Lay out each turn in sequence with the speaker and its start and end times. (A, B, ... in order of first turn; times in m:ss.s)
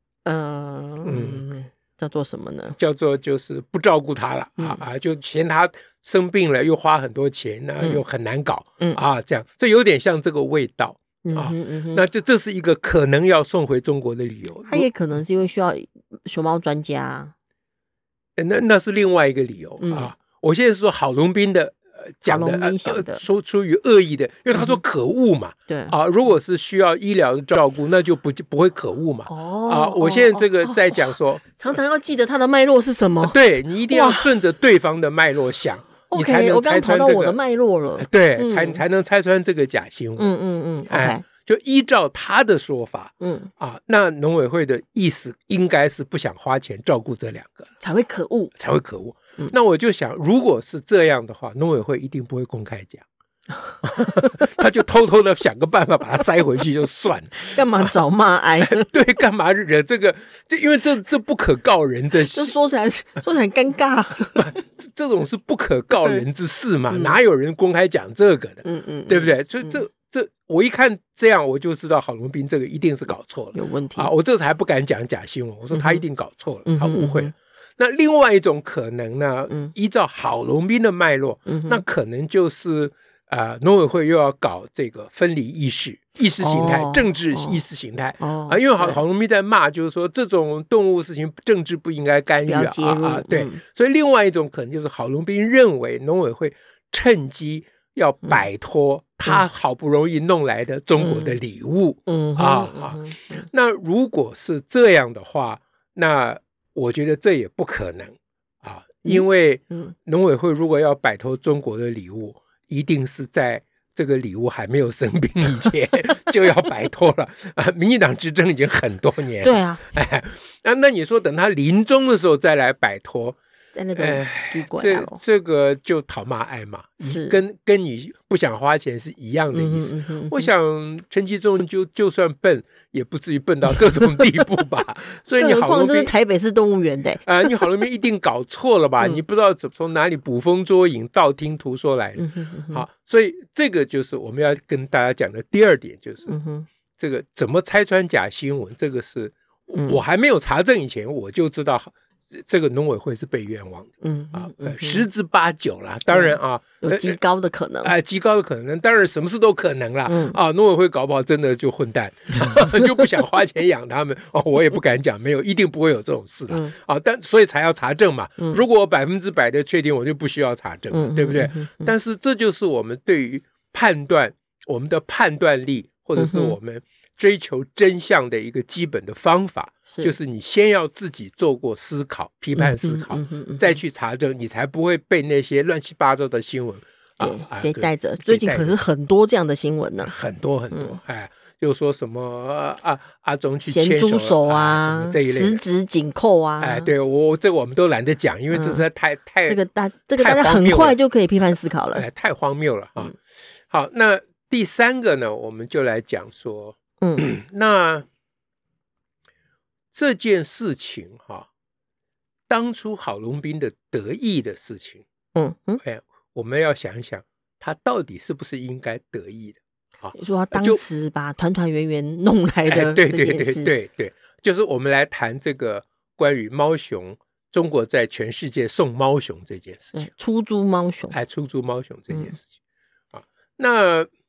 0:00.2-0:02.8 A
0:01.0-0:01.4 B
0:02.8-0:14.9 B
0:11.2-0:12.0 A
0:14.6-0:17.3 A
0:18.4-0:31.8 B
0:19.8-0:20.1 A
0:22.2-0:23.2 A
0:24.5-0:24.8 A
0:25.7-0:25.9 A
0:29.3-0:34.4 A
0:33.2-0:37.4 B
0:36.1-0:38.8 A
0:38.0-0:40.3 B
0:40.2-0:41.2 A
0:40.9-0:47.7 B
0:43.2-0:43.5 A
0:47.8-0:48.5 A
0:48.6-0:53.0 B
0:53.8-0:58.0 B
0:57.4-0:58.9 A
0:58.6-1:02.5 B
1:02.3-1:04.6 A
1:04.4-2:03.4 B
1:06.9-1:07.2 A
1:08.6-1:09.8 A
1:13.5-1:14.1 A
1:15.7-1:16.0 A
1:16.6-1:17.3 A
1:21.5-1:21.8 A
1:26.4-1:27.6 A
1:28.2-1:29.0 A
1:32.4-1:33.6 A
1:41.0-1:41.4 A
1:42.1-1:43.5 A
1:59.4-1:59.8 A
2:03.7-2:05.2 A
2:04.0-2:16.1 B
2:07.0-2:07.4 A
2:09.5-2:10.5 A
2:15.4-2:17.6 A
2:17.2-2:26.3 B
2:22.2-2:22.8 A
2:26.3-2:26.7 A
2:27.0-2:37.2 B
2:29.7-2:30.0 A
2:34.0-2:35.0 A
2:36.1-2:37.9 A
2:37.8-3:08.8 B
2:40.1-2:40.4 A
2:50.9-2:51.9 A
2:56.2-2:56.6 A
2:59.9-3:00.1 A
3:02.6-3:03.8 A
3:07.2-3:10.1 A
3:10.0-3:15.6 B
3:10.7-3:11.0 A
3:13.6-3:16.9 A
3:16.6-3:19.6 B
3:18.5-3:18.8 A
3:19.4-3:22.0 A
3:20.1-3:21.0 B
3:21.9-3:23.2 B
3:23.7-3:28.0 B
3:27.0-3:27.3 A
3:29.9-3:31.5 B
3:32.5-3:35.0 B
3:35.3-3:35.8 A
3:35.8-3:40.8 B
3:40.1-3:43.7 A
3:42.7-3:50.1 B
3:49.9-3:51.1 A
3:51.1-3:52.4 B
3:53.1-3:54.1 B